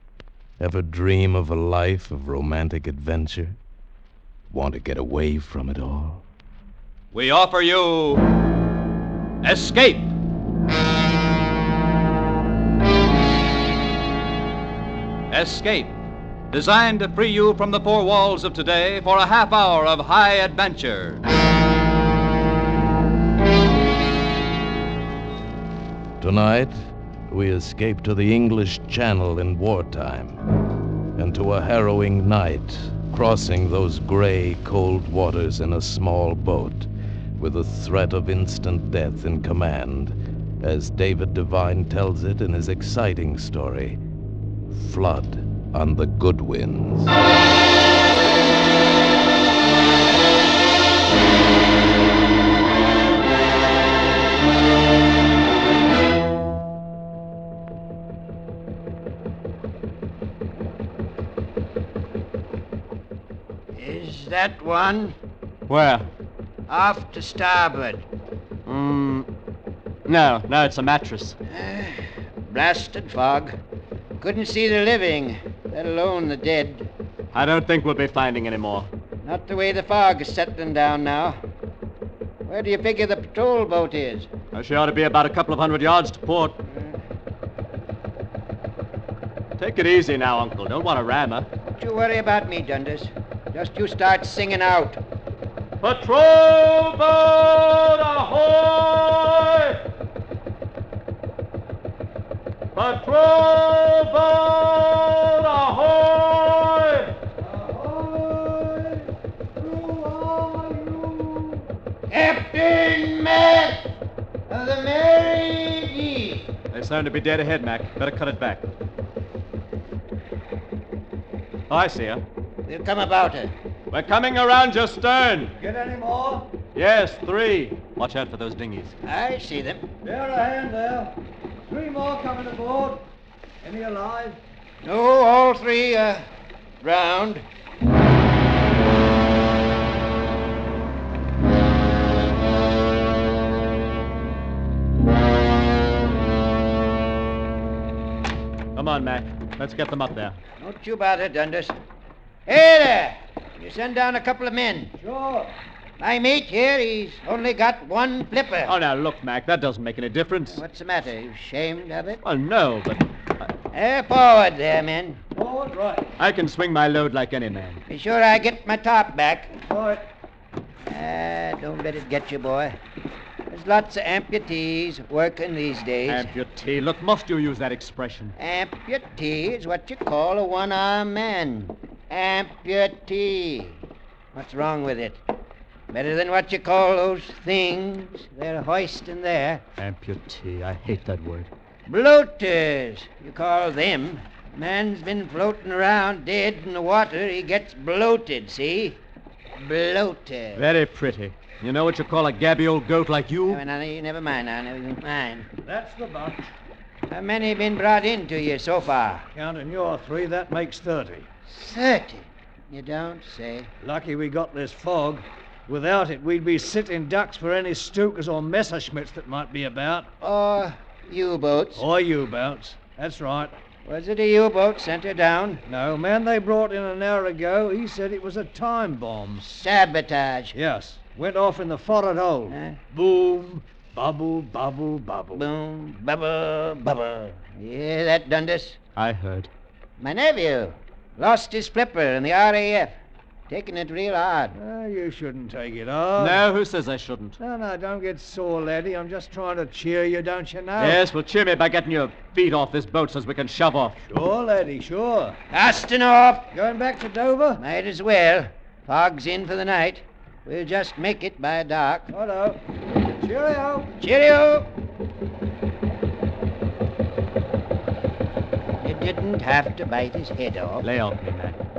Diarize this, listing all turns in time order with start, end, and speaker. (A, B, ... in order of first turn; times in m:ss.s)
0:00.6-0:03.6 A
0:04.5-0:06.2 A
0:07.1-0:08.2 B
0:09.4-0:10.1 B
0:15.3-0:16.0 B
0:16.5-0:21.2 B
0:26.2-0:30.4 A
0:31.2-0:44.0 A
0:44.7-0:47.2 A
1:03.7-1:05.1 C
1:05.7-1:06.1 D
1:06.7-1:08.0 C
1:08.6-1:09.3 D
1:10.0-1:11.4 D
1:11.5-1:13.6 C
1:14.2-1:16.9 C
1:17.3-1:18.9 D
1:19.2-1:21.4 C
1:22.5-1:24.3 C
1:24.5-1:26.6 D
1:29.6-1:31.5 D
1:31.8-1:35.0 C
1:35.8-1:39.8 D
1:42.7-1:47.2 D
1:47.5-1:49.0 C
1:49.7-1:51.6 E
1:52.1-1:53.9 C
1:54.5-1:56.5 C
1:56.7-1:58.7 D
2:01.7-2:02.2 D
2:02.6-2:03.5 C
2:03.9-2:05.6 D
2:05.6-2:06.5 E
2:06.7-2:09.0 D
2:09.0-2:09.8 C
2:10.0-2:11.2 E
2:11.7-2:13.1 E
2:13.6-2:14.4 E
2:14.8-2:16.3 C
2:16.8-2:17.4 C
2:28.7-2:30.4 D
2:30.6-2:31.8 C
2:32.5-2:34.9 C
2:35.0-2:35.6 E
2:36.0-2:38.8 C
2:38.6-2:40.6 D
2:40.5-2:42.2 C
2:42.2-2:43.5 D
2:43.7-2:45.2 C
2:45.3-2:46.1 E
2:46.2-2:47.8 D
2:47.9-2:49.6 C
2:49.6-2:50.1 E
2:50.8-2:52.8 C
2:53.5-2:56.3 C
2:56.1-2:58.4 D
2:58.4-3:03.8 C
3:04.3-3:05.2 C
3:05.9-3:09.6 C
3:09.8-3:11.5 D
3:11.9-3:19.0 C
3:19.6-3:20.6 C
3:20.5-3:23.6 D
3:23.5-3:25.5 C
3:25.6-3:26.5 E
3:27.1-3:29.2 C
3:29.3-3:31.3 E
3:31.5-3:33.7 C
3:33.8-3:40.1 E
3:40.2-3:41.8 C
3:41.8-3:43.5 E
3:43.8-3:45.6 C
3:45.7-3:49.5 E
3:49.4-3:50.6 C
3:50.5-3:55.4 E
3:52.5-3:52.8 C
3:55.3-3:58.8 C
3:59.0-3:59.5 D
4:00.0-4:02.9 C
4:03.5-4:04.6 C
4:04.5-4:06.4 E
4:06.2-4:07.4 D
4:07.4-4:11.0 E
4:10.8-4:14.0 D
4:14.1-4:15.4 E
4:15.5-4:16.5 C
4:16.5-4:17.6 E
4:17.6-4:22.1 C
4:22.1-4:22.6 E
4:23.2-4:23.9 E
4:24.0-4:24.7 C
4:28.8-4:30.8 C
4:30.8-4:31.6 D